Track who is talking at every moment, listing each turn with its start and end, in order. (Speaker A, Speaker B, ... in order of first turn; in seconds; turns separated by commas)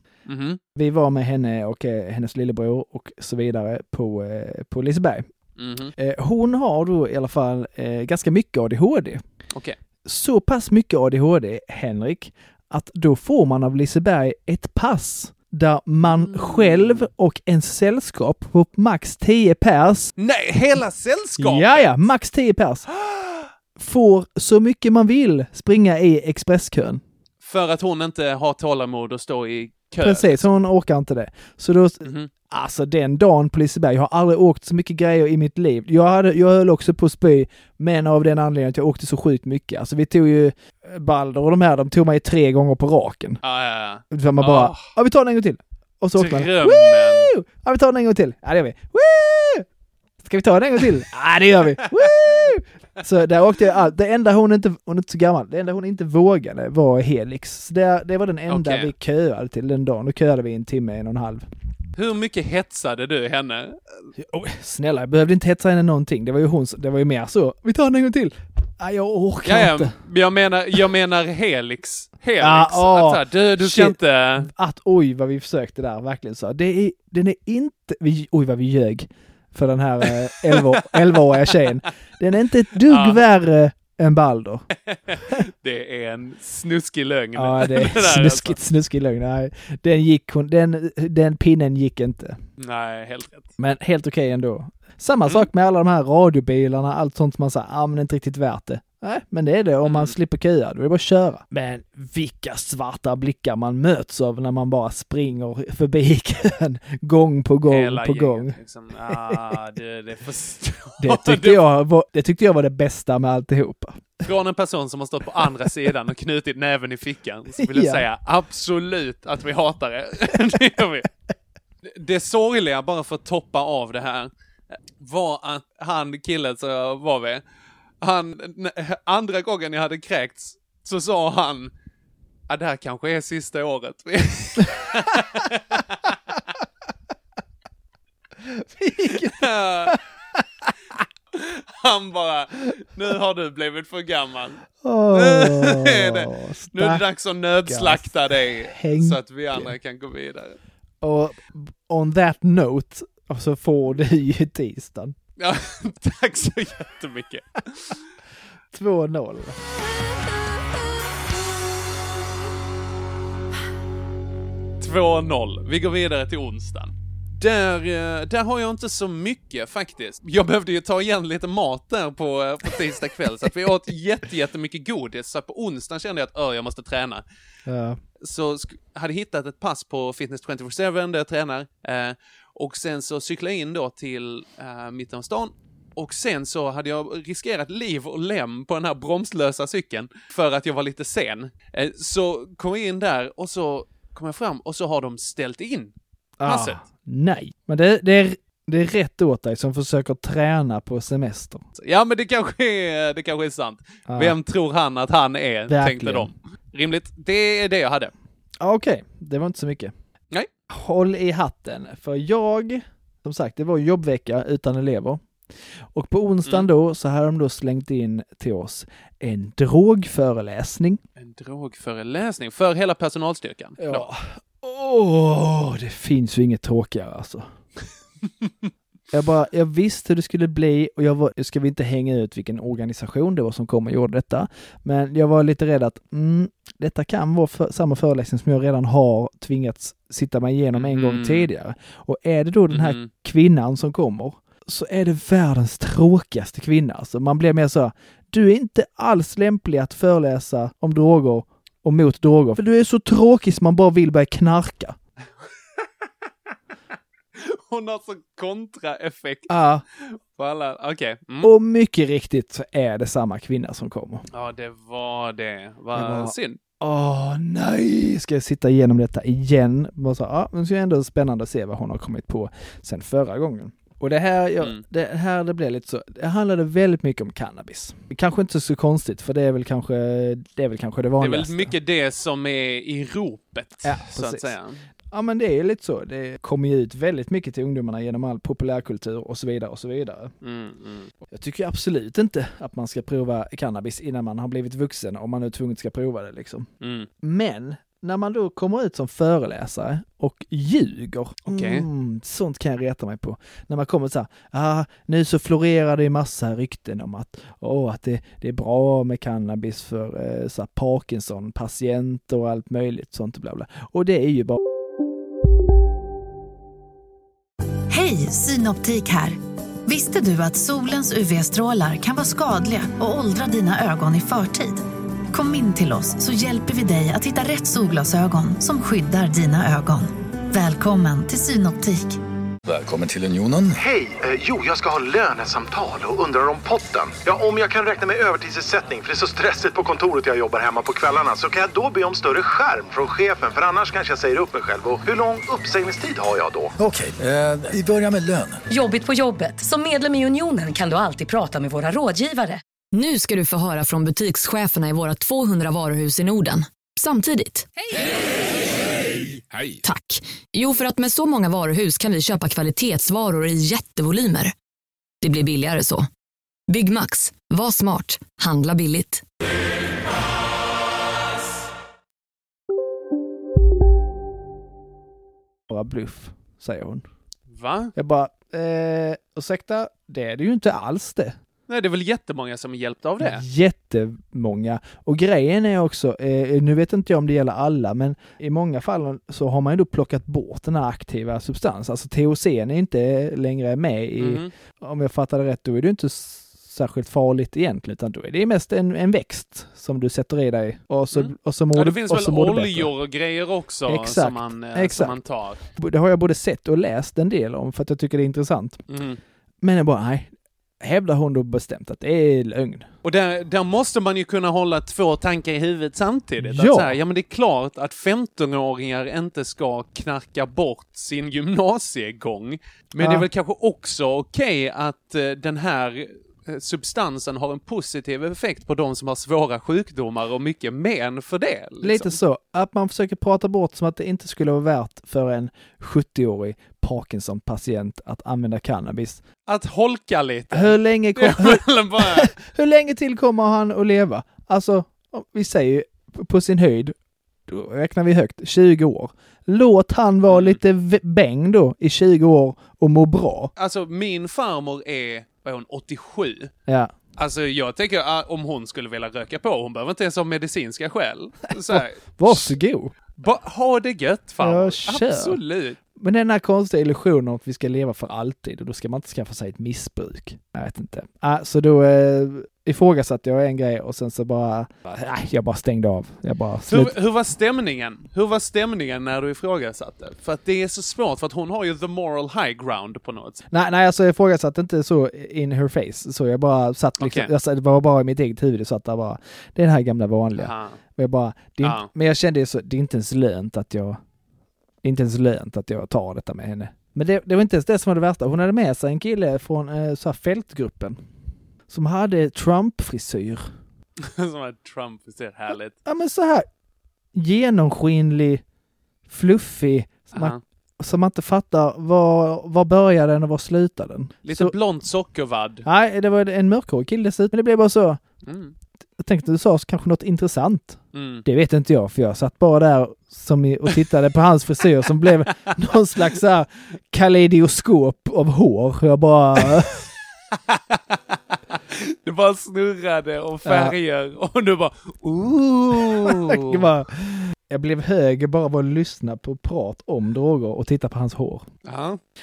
Speaker A: 0.3-0.6, Speaker B: 0.7-5.3, Speaker A: 5.6-5.9, Speaker B: 6.0-9.2, Speaker A: 9.5-9.8, Speaker B: 10.0-20.1, Speaker A: 16.2-17.1, Speaker A: 20.2-22.1, Speaker B: 21.4-22.9, Speaker B: 23.8-27.0, Speaker A: 27.4-30.4, Speaker B: 30.0-43.4, Speaker A: 32.0-32.3, Speaker A: 43.4-44.9, Speaker B: 44.1-49.6, Speaker A: 46.1-47.3, Speaker B: 50.2-61.5, Speaker A: 58.5-58.9, Speaker A: 61.9-63.8, Speaker B: 64.2-69.9, Speaker A: 69.4-74.5, Speaker B: 72.4-84.7, Speaker A: 80.5-81.6, Speaker A: 82.9-83.2, Speaker A: 84.9-88.6, Speaker B: 87.3-92.4, Speaker A: 92.6-93.5, Speaker B: 93.6-108.5, Speaker A: 99.8-100.2, Speaker A: 107.7-111.7, Speaker B: 109.1-109.5, Speaker B: 111.0-114.1, Speaker A: 114.2-121.1, Speaker B: 117.6-118.0, Speaker A: 121.8-124.3, Speaker A: 125.0-127.4, Speaker A: 128.0-131.7, Speaker A: 132.5-136.1, Speaker B: 138.4-140.4, Speaker A: 139.1-139.9, Speaker A: 141.3-150.6, Speaker B: 144.8-147.0, Speaker B: 147.6-149.7, Speaker B: 151.0-155.2, Speaker A: 155.4-158.0, Speaker B: 158.7-159.6, Speaker A: 164.8-177.2, Speaker B: 177.7-178.0, Speaker A: 178.2-195.9, Speaker B: 196.4-201.6, Speaker A: 196.4-196.8, Speaker A: 201.8-208.1, Speaker B: 204.1-204.4, Speaker B: 205.7-206.3, Speaker B: 208.6-209.9, Speaker B: 210.7-215.2, Speaker B: 215.9-221.0, Speaker A: 221.2-224.1, Speaker B: 223.8-227.4, Speaker B: 229.1-255.0, Speaker A: 240.7-241.5, Speaker A: 242.7-243.1, Speaker A: 257.4-261.5, Speaker B: 259.5-259.8, Speaker B: 261.4-264.2, Speaker A: 264.3-266.6, Speaker B: 265.9-281.7, Speaker A: 281.2-284.8, Speaker B: 283.8-284.5, Speaker B: 285.1-290.3, Speaker A: 290.4-291.1, Speaker B: 291.3-296.7, Speaker A: 296.8-297.1, Speaker B: 297.2-314.6, Speaker A: 301.5-301.9, Speaker C: 317.9-332.2, Speaker D: 332.7-333.8, Speaker E: 333.9-346.7, Speaker D: 346.8-348.6, Speaker F: 348.7-352.6, Speaker G: 352.9-357.7, Speaker G: 359.8-364.5, Speaker G: 365.2-366.1, Speaker G: 366.7-369.2, Speaker B: 375.7-377.0, Speaker A: 377.5-377.9, Speaker B: 377.9-381.4, Speaker A: 381.7-383.4, Speaker B: 383.2-402.9, Speaker A: 394.2-394.5, Speaker A: 401.1-405.6, Speaker B: 403.9-408.8, Speaker A: 408.9-409.2, Speaker B: 409.6-412.9, Speaker A: 413.0-432.2, Speaker B: 416.4-417.0, Speaker B: 423.0-423.2, Speaker B: 431.8-439.2, Speaker A: 439.5-442.3, Speaker B: 440.5-446.9, Speaker B: 447.5-453.5, Speaker A: 450.3-450.6, Speaker A: 453.6-456.5, Speaker B: 456.7-456.9, Speaker A: 457.2-462.6, Speaker B: 461.7-462.9, Speaker A: 463.1-465.8, Speaker B: 464.4-465.4, Speaker B: 465.9-476.9, Speaker A: 476.7-483.4, Speaker B: 483.5-494.0, Speaker A: 487.0-487.3, Speaker A: 490.4-490.8, Speaker A: 491.6-491.9, Speaker B: 494.8-501.0, Speaker B: 501.7-503.5, Speaker A: 504.0-505.7, Speaker B: 505.9-506.4, Speaker B: 507.1-508.4, Speaker B: 509.1-514.5, Speaker A: 510.1-510.4, Speaker A: 514.2-515.6, Speaker B: 515.6-518.0, Speaker A: 518.2-518.5, Speaker B: 519.0-529.7, Speaker A: 520.9-521.2, Speaker A: 530.5-536.4, Speaker B: 533.4-533.7, Speaker B: 535.8-541.5, Speaker A: 541.6-542.0